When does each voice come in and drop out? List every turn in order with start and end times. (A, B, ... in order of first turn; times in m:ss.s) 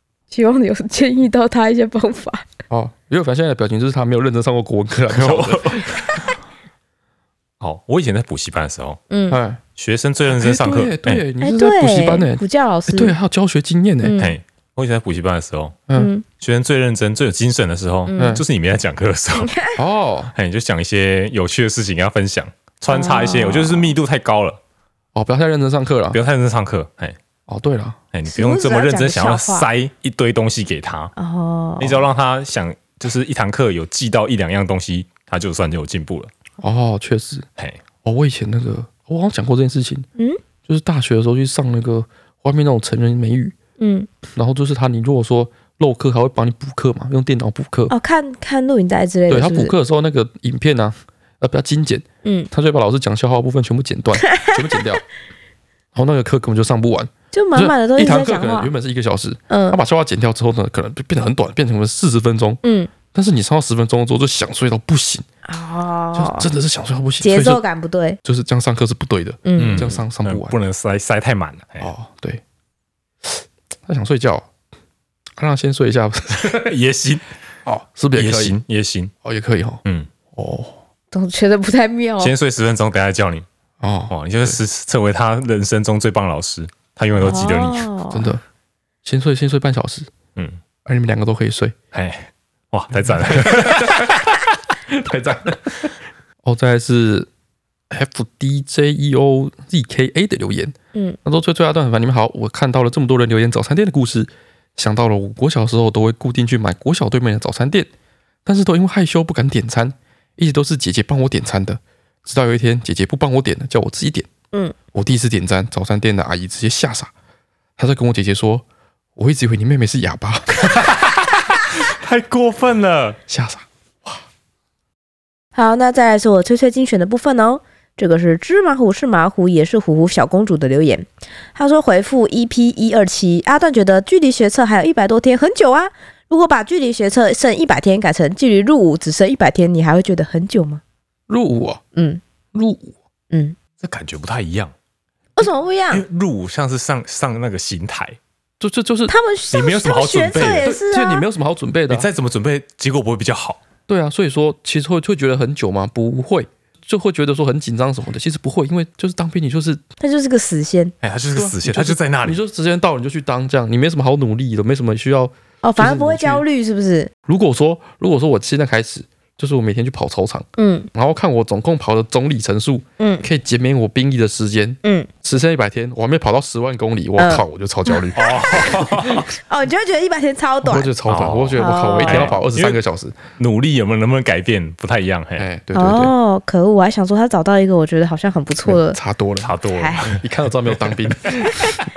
0:00.3-0:02.5 A
0:02.7-0:05.9 B
0:05.1-0:06.2 C
0:07.6-0:09.0 C
0:09.1-0:09.4 A
0:09.3-0:09.6 B
0:09.8-0:11.2 C
0:10.3-0:14.2 B
0:11.4-0:13.1 A
0:14.0-0:14.4 A
0:14.2-0:15.8 C
0:16.0-0:16.2 A
0:16.4-0:19.6 C
0:18.1-0:18.4 A
0:18.2-0:18.4 B
0:19.4-0:19.8 A
0:19.8-0:20.3 B
0:20.4-0:24.6 C
0:22.9-0:23.9 A
0:25.2-0:26.2 B
0:26.1-0:27.2 C
0:27.5-0:28.0 B
0:28.1-0:31.1 C
0:28.3-0:29.7 A
0:31.2-0:32.1 A
0:31.8-0:36.3 C
0:36.6-0:37.4 B
0:38.0-0:40.1 B
0:40.7-0:43.6 B
0:43.8-0:44.1 A
0:44.4-0:47.9 B
0:47.9-0:49.7 A
0:49.3-0:55.0 B
0:52.2-0:52.5 A
0:56.0-1:02.6 B
0:57.3-0:58.7 A
0:59.5-0:59.8 A
1:02.6-1:02.9 A
1:03.1-1:05.3 B
1:05.4-1:06.5 A
1:06.2-1:07.6 B
1:07.2-1:08.2 A
1:08.2-1:10.6 B
1:09.4-1:10.0 A
1:09.6-1:11.9 C
1:11.8-1:12.4 B
1:13.2-1:14.5 B
1:15.4-1:16.7 B
1:16.4-1:17.2 C
1:17.7-1:18.6 B
1:18.2-1:19.1 C
1:19.2-1:19.8 B
1:20.3-1:20.8 B
1:21.1-1:22.3 A
1:22.2-1:23.5 C
1:23.8-1:24.6 B
1:24.1-1:27.9 C
1:27.2-1:28.3 A
1:28.1-1:28.4 B
1:29.0-1:30.1 B
1:30.8-1:31.8 B
1:31.9-1:34.3 C
1:33.1-1:37.3 B
1:37.9-1:47.9 B
1:48.4-1:54.3 B
1:54.9-1:57.1 B
1:57.8-1:58.6 B
1:59.2-2:00.9 B
2:00.6-2:03.2 C
2:03.3-2:04.2 B
2:05.6-2:20.8 A
2:21.3-2:21.8 B
2:22.0-2:22.2 A
2:22.5-2:23.0 B
2:23.3-2:23.6 A
2:23.8-2:24.7 C
2:25.4-2:26.0 A
2:25.9-2:28.2 C
2:28.6-2:29.1 B
2:29.1-2:31.2 A
2:29.5-2:30.7 C
2:30.6-2:32.1 B
2:31.9-2:33.6 C
2:33.9-2:39.8 B
2:40.0-2:40.9 A
2:41.0-2:42.4 C
2:41.4-2:46.4 B
2:45.6-2:47.1 A
2:47.3-2:59.2 B
2:50.6-2:50.9 A
2:53.0-2:53.3 A
2:57.2-2:58.1 A
2:58.2-2:59.3 C
2:59.4-3:00.9 A
3:00.6-3:03.2 B
3:01.1-3:02.8 C
3:01.6-3:02.4 A
3:03.4-3:05.5 C
3:05.4-3:06.1 B
3:05.7-3:09.0 A
3:08.6-3:11.8 B
3:09.4-3:10.2 C
3:09.7-3:10.1 A